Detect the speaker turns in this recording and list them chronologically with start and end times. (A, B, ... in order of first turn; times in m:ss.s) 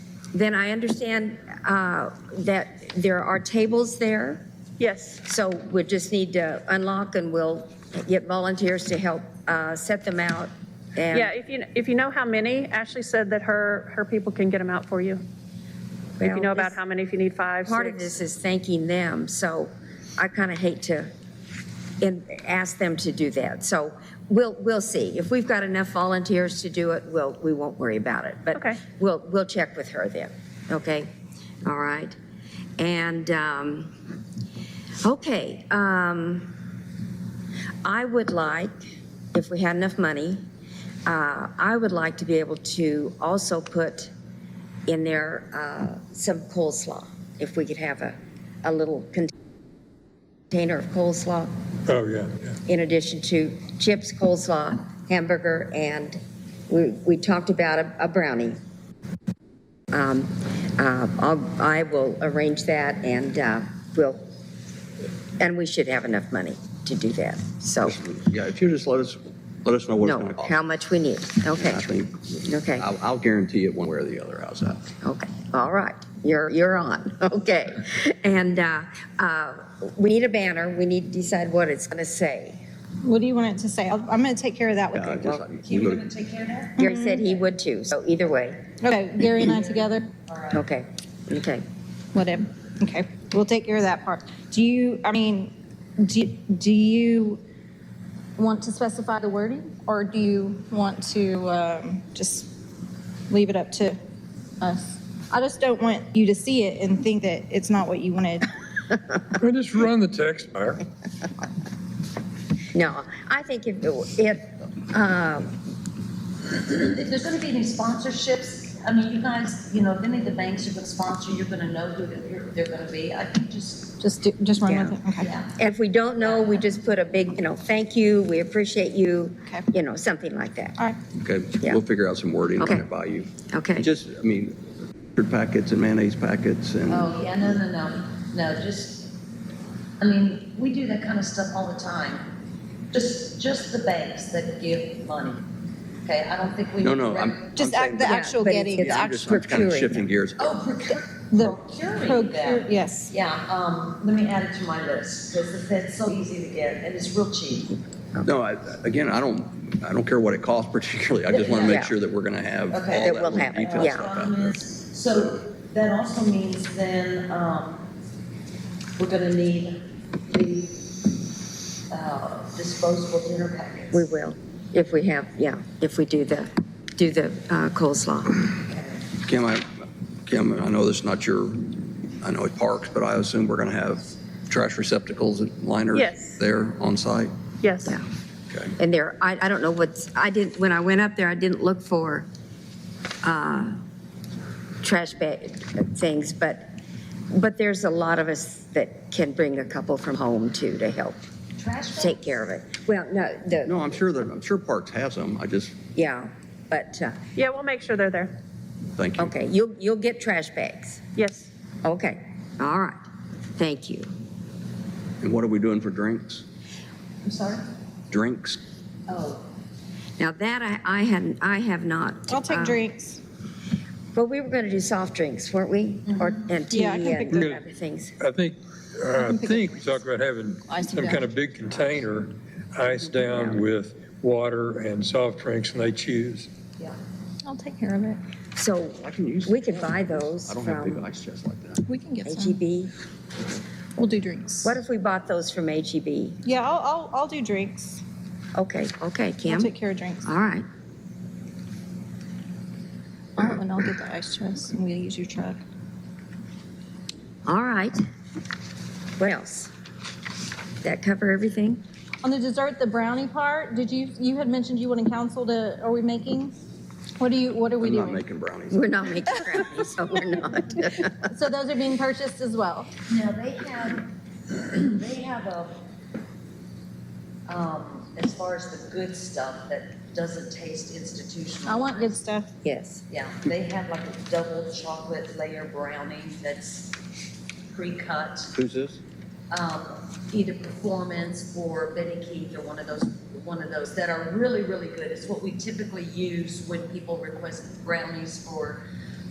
0:00.3-0:04.4 A
0:04.8-0:05.2 B
0:05.2-0:11.3 A
0:11.1-0:15.2 B
0:16.2-0:16.8 A
0:16.2-0:18.1 B
0:17.7-0:21.1 A
0:22.0-0:31.1 A
0:28.6-0:28.8 B
0:31.6-0:32.2 A
0:32.8-0:34.0 A
0:35.0-0:36.5 A
0:37.8-0:38.8 A
0:39.3-0:40.4 A
0:41.0-0:44.1 A
0:44.9-0:49.3 A
0:50.5-0:51.5 A
0:51.9-0:52.6 C
0:52.7-0:58.6 A
0:59.9-1:04.2 A
1:05.4-1:08.0 A
1:07.8-1:10.6 D
1:10.0-1:12.8 A
1:11.6-1:14.9 D
1:15.0-1:22.6 A
1:23.0-1:25.2 E
1:24.9-1:26.1 D
1:25.6-1:26.8 F
1:26.8-1:28.8 A
1:26.8-1:27.2 E
1:28.8-1:30.1 E
1:29.6-1:30.6 F
1:30.5-1:31.6 A
1:32.1-1:37.4 E
1:38.4-1:42.5 E
1:43.3-1:44.0 E
1:44.6-1:48.5 E
1:49.4-1:50.8 C
1:52.7-1:55.5 A
1:56.4-2:04.0 F
2:04.0-2:05.3 E
2:04.6-2:05.0 A
2:05.2-2:05.5 F
2:05.6-2:10.8 A
2:06.2-2:06.6 F
2:11.1-2:14.6 D
2:12.6-2:12.8 A
2:13.5-2:13.9 A
2:15.2-2:17.2 D
2:17.1-2:19.1 F
2:20.0-2:22.3 F
2:22.9-2:25.4 F
2:26.0-2:27.5 F
2:26.8-2:30.6 D
2:27.6-2:29.2 E
2:28.0-2:30.1 A
2:30.4-2:37.7 F
2:31.3-2:33.1 E
2:38.2-2:44.5 D
2:41.4-2:41.7 F
2:41.6-2:41.9 A
2:42.7-2:43.0 F
2:43.0-2:44.1 A
2:43.6-2:47.8 F
2:49.0-2:50.9 F
2:51.9-2:54.1 F
2:53.9-2:58.5 A
2:59.2-2:59.7 D
3:00.2-3:07.3 D
3:05.9-3:06.4 B
3:07.6-3:08.0 B
3:08.5-3:08.8 D
3:08.8-3:12.3 A
3:13.2-3:13.8 A
3:14.8-3:16.7 A
3:17.3-3:21.2 A
3:21.6-3:22.2 F
3:22.0-3:23.8 A
3:23.7-3:25.8 D
3:25.9-3:27.2 A
3:27.4-3:28.4 B
3:29.0-3:29.3 D
3:29.2-3:31.0 A
3:31.2-3:31.5 B
3:31.8-3:33.0 A
3:33.6-3:34.1 A
3:35.2-3:36.4 D
3:37.2-3:37.7 F
3:38.1-3:38.6 D
3:39.1-3:39.5 F
3:40.2-3:42.8 A
3:42.3-3:43.2 E
3:44.1-3:48.2 A
3:46.7-3:47.5 E
3:47.2-3:47.6 C
3:48.2-3:56.5 C
3:49.2-3:50.0 E
3:50.6-3:51.4 E
3:53.0-3:53.6 A
3:57.4-3:58.2 E
3:58.5-4:01.0 A
3:59.0-4:01.8 D
4:01.9-4:02.6 E
4:02.2-4:02.9 A
4:04.0-4:04.8 E
4:04.6-4:06.4 A
4:06.4-4:08.0 E
4:08.6-4:09.7 A
4:09.5-4:10.3 E
4:10.2-4:10.7 A
4:13.4-4:15.6 E
4:17.4-4:18.0 A
4:19.2-4:19.7 A
4:20.8-4:21.8 A
4:22.2-4:26.6 E
4:27.2-4:28.2 E
4:27.8-4:29.2 D
4:28.7-4:31.3 A
4:31.3-4:32.9 E
4:33.0-4:35.7 F
4:37.5-4:42.1 F
4:41.6-4:42.5 E
4:42.6-4:43.0 A
4:43.1-4:47.0 F
4:47.7-4:48.5 F
4:48.5-4:49.0 D
4:49.5-4:58.8 F